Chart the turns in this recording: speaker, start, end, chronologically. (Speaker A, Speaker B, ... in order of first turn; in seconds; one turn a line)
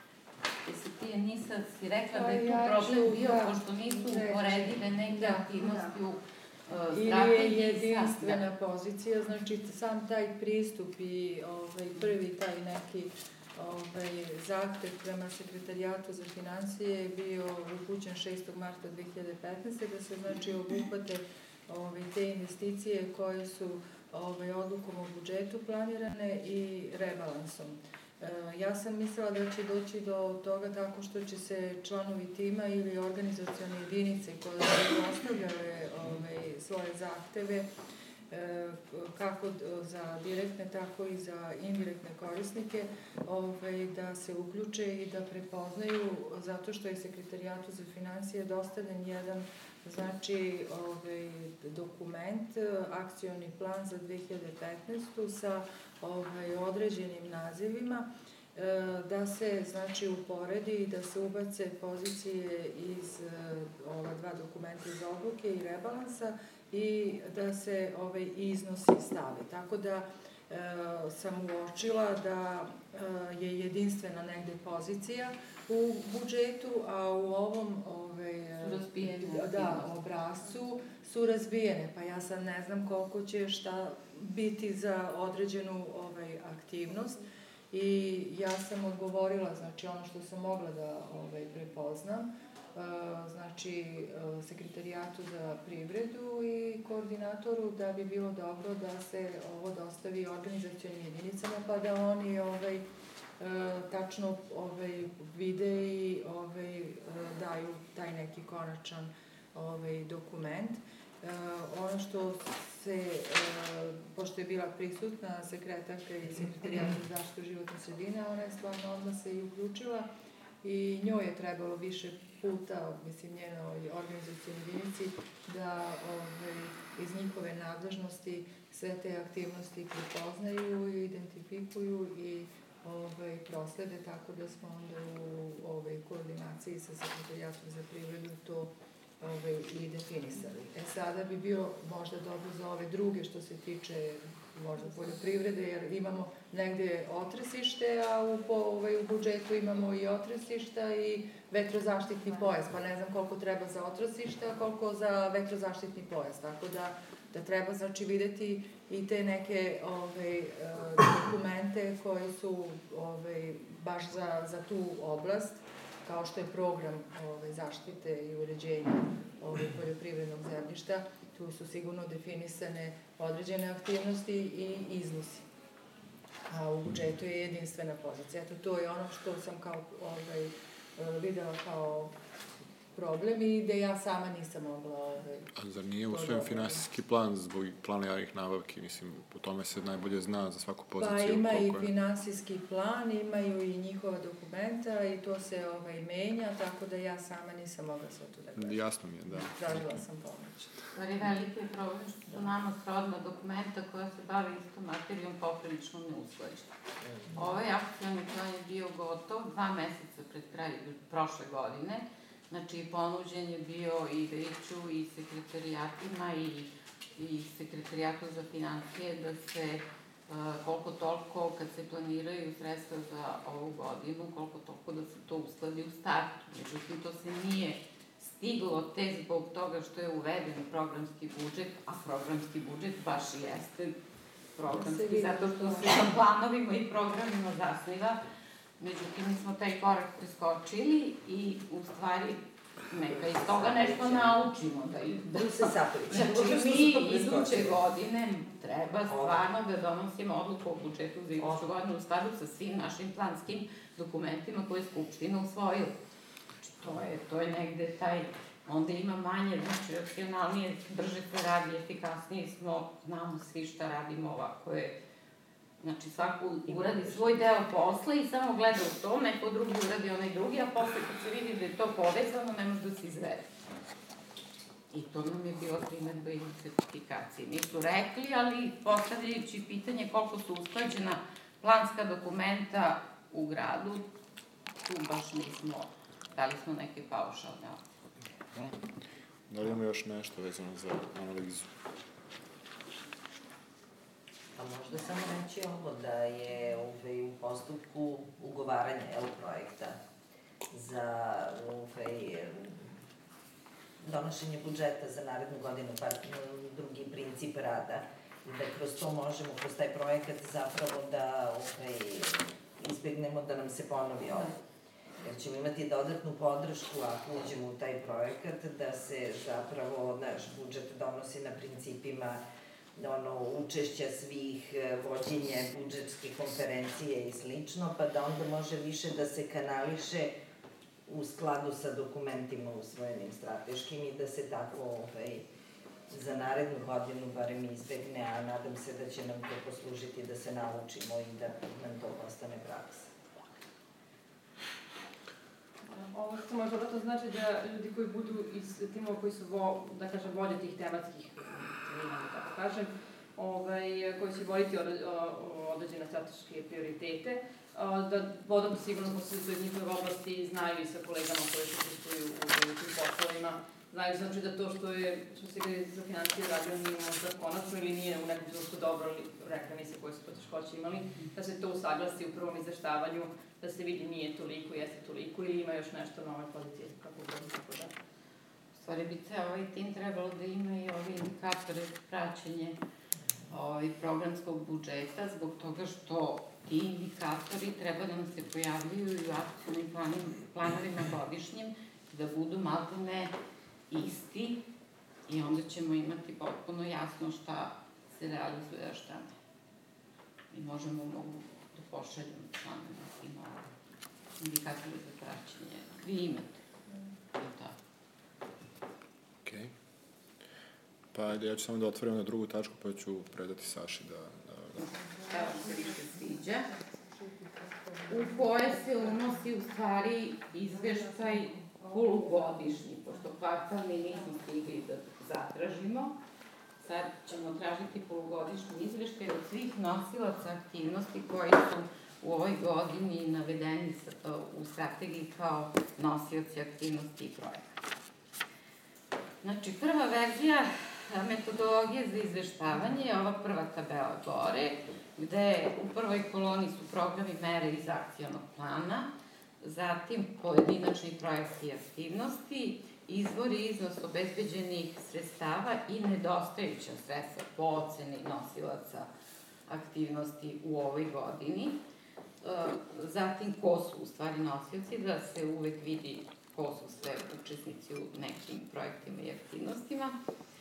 Speaker A: 0.6-8.4
Speaker B: 2.1-5.8
Speaker B: 6.9-37.7
Speaker B: 38.3-102.8
Speaker A: 78.6-80.0
Speaker B: 103.4-120.1
Speaker C: 116.2-117.0
Speaker B: 120.6-175.4
Speaker B: 176.5-182.1
Speaker B: 182.9-186.9
Speaker D: 185.6-191.9
Speaker B: 190.9-200.7
Speaker D: 198.6-200.0
Speaker A: 200.9-206.7
Speaker C: 207.0-207.5
Speaker A: 207.3-233.9
Speaker A: 234.6-238.2
Speaker B: 234.7-236.1
Speaker A: 238.8-256.0
Speaker C: 243.1-244.4
Speaker C: 245.3-247.8
Speaker C: 249.1-249.4
Speaker C: 251.4-251.7
Speaker A: 256.6-264.9
Speaker A: 265.8-273.5
Speaker A: 274.9-284.1
Speaker A: 284.8-287.8
Speaker D: 289.5-291.7
Speaker C: 294.6-300.0
Speaker C: 300.7-303.0
Speaker C: 304.0-314.6
Speaker C: 315.2-322.4
Speaker C: 322.9-330.4
Speaker C: 331.1-335.4
Speaker C: 336.1-343.1
Speaker E: 345.9-377.9
Speaker A: 378.7-382.8
Speaker A: 383.5-393.3
Speaker A: 393.9-394.6
Speaker A: 395.3-399.4
Speaker A: 400.5-403.7
Speaker A: 404.4-406.6
Speaker A: 407.3-407.8
Speaker D: 409.4-409.7
Speaker D: 411.1-414.8
Speaker A: 414.7-416.7
Speaker B: 415.0-419.5
Speaker A: 418.1-426.2
Speaker B: 420.6-423.3
Speaker A: 426.8-437.7
Speaker A: 439.4-459.1
Speaker A: 459.7-461.8
Speaker A: 462.4-470.1